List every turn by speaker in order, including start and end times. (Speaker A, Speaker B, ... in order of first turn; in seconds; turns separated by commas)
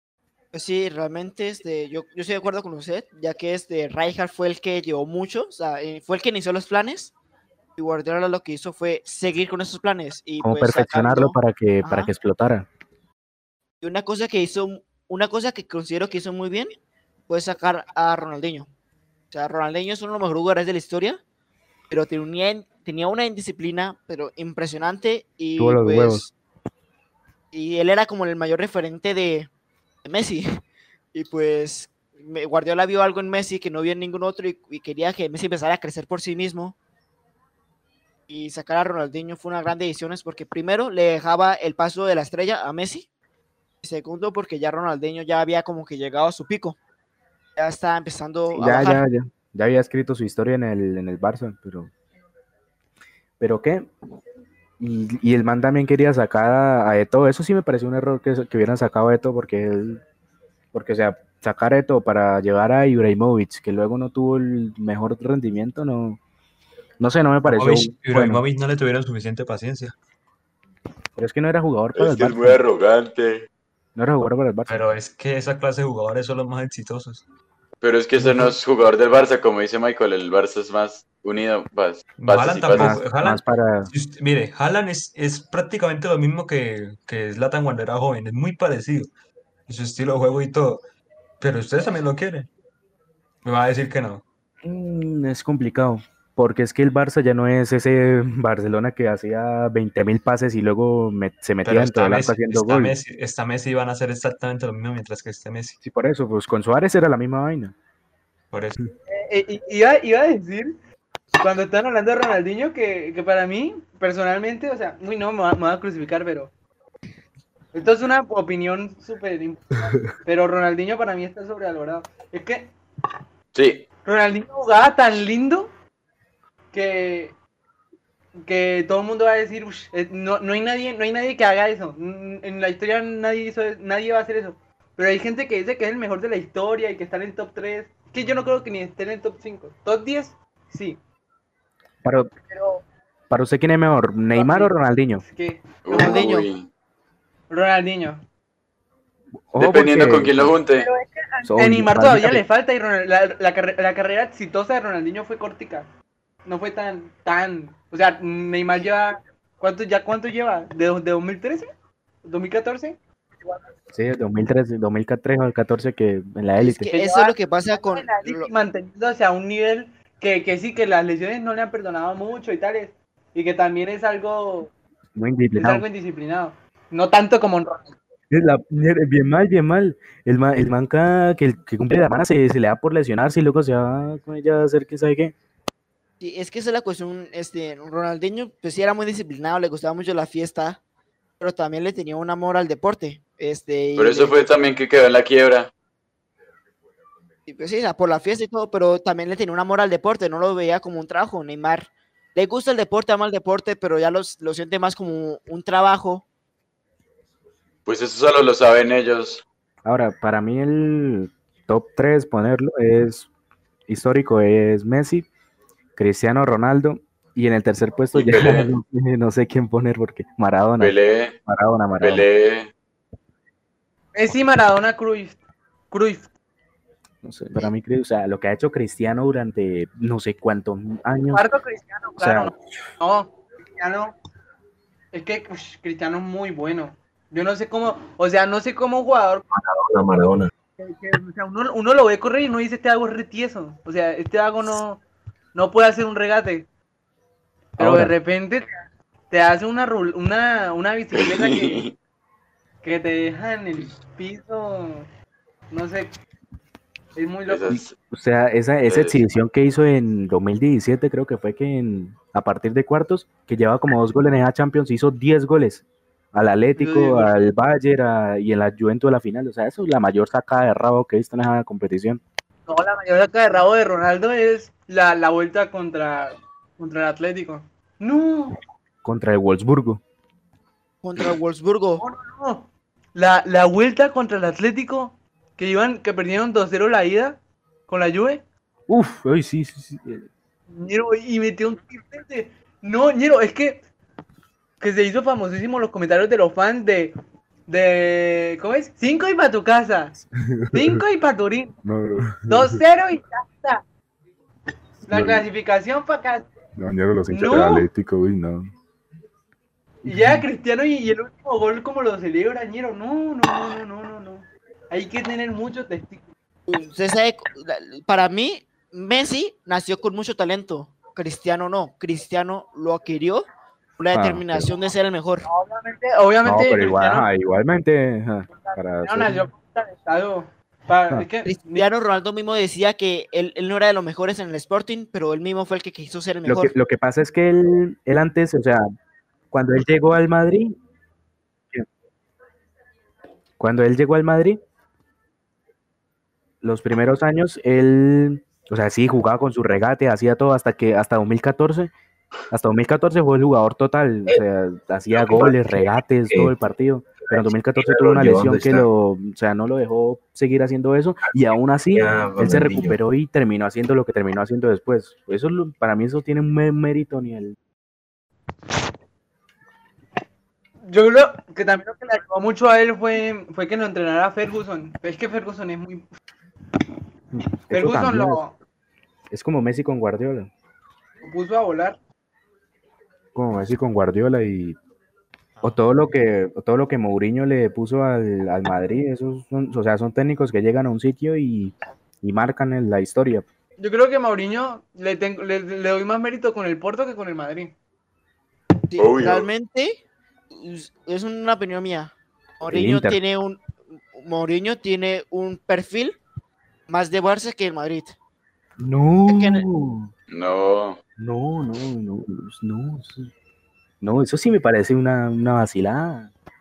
Speaker A: 0.5-7.1, Speaker A: 7.8-12.1, Speaker B: 10.4-12.7, Speaker A: 13.8-16.7, Speaker A: 17.3-18.7, Speaker A: 19.3-21.2, Speaker A: 21.9-26.3, Speaker B: 25.6-26.2, Speaker A: 27.5-29.5, Speaker A: 30.0-30.5, Speaker A: 31.1-36.8, Speaker A: 38.3-43.1, Speaker A: 43.8-46.8, Speaker A: 47.5-49.0, Speaker B: 48.5-51.9, Speaker B: 53.4-53.9, Speaker B: 54.8-60.0, Speaker B: 60.7-66.2, Speaker B: 67.0-68.4, Speaker C: 67.5-69.9, Speaker B: 71.2-72.6, Speaker D: 72.0-73.5, Speaker B: 73.9-74.9, Speaker C: 74.7-77.2, Speaker D: 77.8-83.0, Speaker C: 78.2-78.5, Speaker C: 82.2-89.1, Speaker B: 82.7-83.9, Speaker C: 89.7-90.8, Speaker C: 91.4-92.5, Speaker C: 93.4-94.2, Speaker B: 94.6-103.0, Speaker C: 101.6-105.8, Speaker B: 105.8-107.7, Speaker C: 108.5-108.8, Speaker E: 109.1-110.8, Speaker E: 111.4-116.5, Speaker E: 117.7-122.7, Speaker D: 123.5-123.8, Speaker E: 124.0-125.7, Speaker E: 126.7-127.3, Speaker E: 128.4-141.0, Speaker B: 142.0-142.3, Speaker E: 142.5-142.8, Speaker B: 143.3-145.2, Speaker E: 144.3-146.3, Speaker D: 145.8-146.7, Speaker A: 145.9-146.5, Speaker E: 147.5-148.2, Speaker B: 149.5-150.5, Speaker D: 149.6-150.9, Speaker E: 150.8-155.9, Speaker B: 151.4-152.4, Speaker E: 156.4-161.7, Speaker E: 162.2-163.6, Speaker B: 163.9-166.9, Speaker A: 166.6-168.5, Speaker E: 166.9-174.7, Speaker B: 175.2-175.8, Speaker E: 175.6-177.9, Speaker B: 178.3-185.3, Speaker A: 186.2-190.8, Speaker A: 191.4-194.5, Speaker D: 194.0-195.7, Speaker A: 197.5-206.2, Speaker D: 207.8-209.4, Speaker B: 209.8-213.3, Speaker B: 213.9-215.3, Speaker B: 216.0-220.9, Speaker D: 218.1-218.7, Speaker D: 220.8-221.3, Speaker B: 221.4-222.2, Speaker D: 222.0-222.7, Speaker E: 224.1-226.3, Speaker B: 227.2-231.4, Speaker E: 231.3-234.1, Speaker B: 232.2-232.5, Speaker E: 235.1-239.4, Speaker F: 239.5-240.5, Speaker E: 240.8-245.0, Speaker E: 245.5-246.7, Speaker E: 247.8-251.8, Speaker B: 247.8-248.1, Speaker D: 251.1-251.9, Speaker E: 252.8-255.1, Speaker E: 255.7-256.2, Speaker E: 257.1-257.7, Speaker D: 257.5-257.9, Speaker B: 257.7-272.2, Speaker D: 258.9-259.2, Speaker E: 266.8-267.3, Speaker E: 272.7-278.6, Speaker B: 279.0-280.0, Speaker A: 281.0-282.0, Speaker E: 282.0-288.4, Speaker B: 288.9-290.3, Speaker E: 290.7-293.8, Speaker E: 294.8-297.1, Speaker E: 297.7-300.2, Speaker B: 300.4-301.0, Speaker E: 300.7-301.8, Speaker B: 301.8-302.8, Speaker E: 302.5-303.8, Speaker B: 305.0-305.4, Speaker E: 305.1-306.4, Speaker B: 306.8-308.7, Speaker E: 307.3-307.9, Speaker E: 310.0-316.3, Speaker B: 310.0-310.4, Speaker A: 316.7-323.5, Speaker A: 324.0-325.4, Speaker B: 324.1-324.7, Speaker E: 325.4-327.3, Speaker B: 326.4-329.4, Speaker E: 328.5-331.9, Speaker A: 331.4-336.7, Speaker B: 336.4-338.9, Speaker B: 339.5-340.8, Speaker B: 343.6-344.6, Speaker B: 346.6-351.9, Speaker B: 352.5-367.6, Speaker F: 355.3-355.6, Speaker F: 357.3-358.9, Speaker F: 361.3-363.0, Speaker E: 370.9-376.1, Speaker B: 377.3-378.4, Speaker E: 377.7-378.5, Speaker B: 379.3-380.5, Speaker E: 381.2-382.0, Speaker B: 383.3-384.8, Speaker B: 385.6-393.4, Speaker E: 393.8-397.7, Speaker A: 398.9-400.0, Speaker D: 399.0-399.5, Speaker A: 400.5-403.6, Speaker B: 402.7-403.2, Speaker A: 404.1-406.2, Speaker A: 406.9-408.1, Speaker B: 408.8-410.1, Speaker A: 409.3-409.6, Speaker D: 410.3-411.0, Speaker B: 411.2-413.3, Speaker B: 414.0-416.3